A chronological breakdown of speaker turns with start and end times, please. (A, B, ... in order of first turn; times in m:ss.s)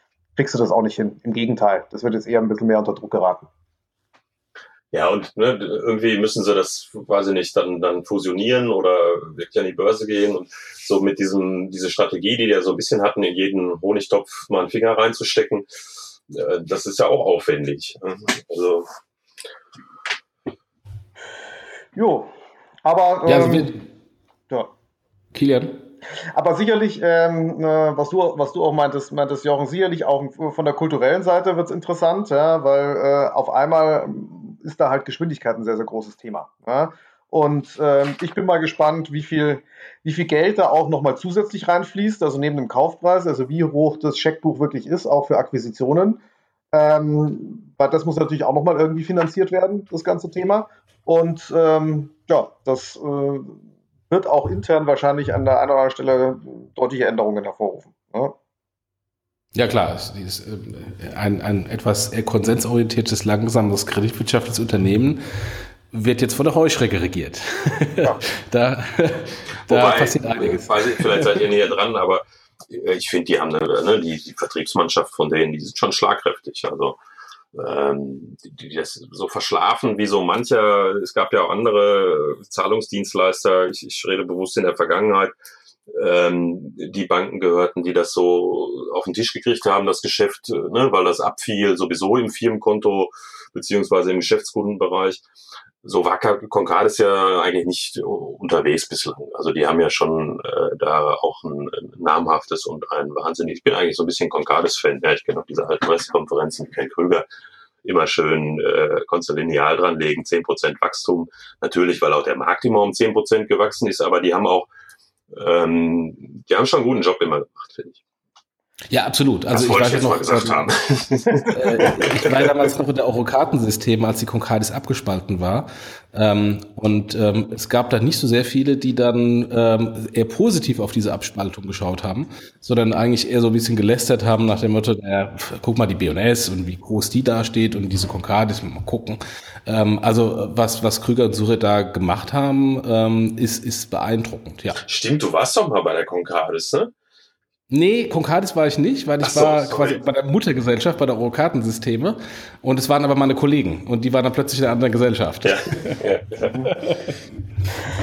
0:00.4-0:03.5 A
0:04.9-0:15.7 B
0:16.3-0:18.9 B
0:21.9-0:22.3 A
0:22.8-0:23.7 A
0:23.2-0:23.8 C
0:25.3-0:25.8 C
0:26.3-0:58.4 A
0:59.5-1:05.2 C
1:05.9-1:11.4 C
1:09.7-1:17.0 B
1:17.5-1:25.3 B
1:25.9-1:35.2 B
1:35.8-1:47.2 B
1:47.8-1:54.7 B
1:55.3-1:58.0 B
1:58.9-2:00.6 C
1:59.5-2:02.5 B
2:01.4-2:24.8 C
2:24.8-2:26.9 B
2:27.7-2:36.0 C
2:29.2-2:30.0 B
2:35.4-2:36.7 B
2:36.6-2:37.1 C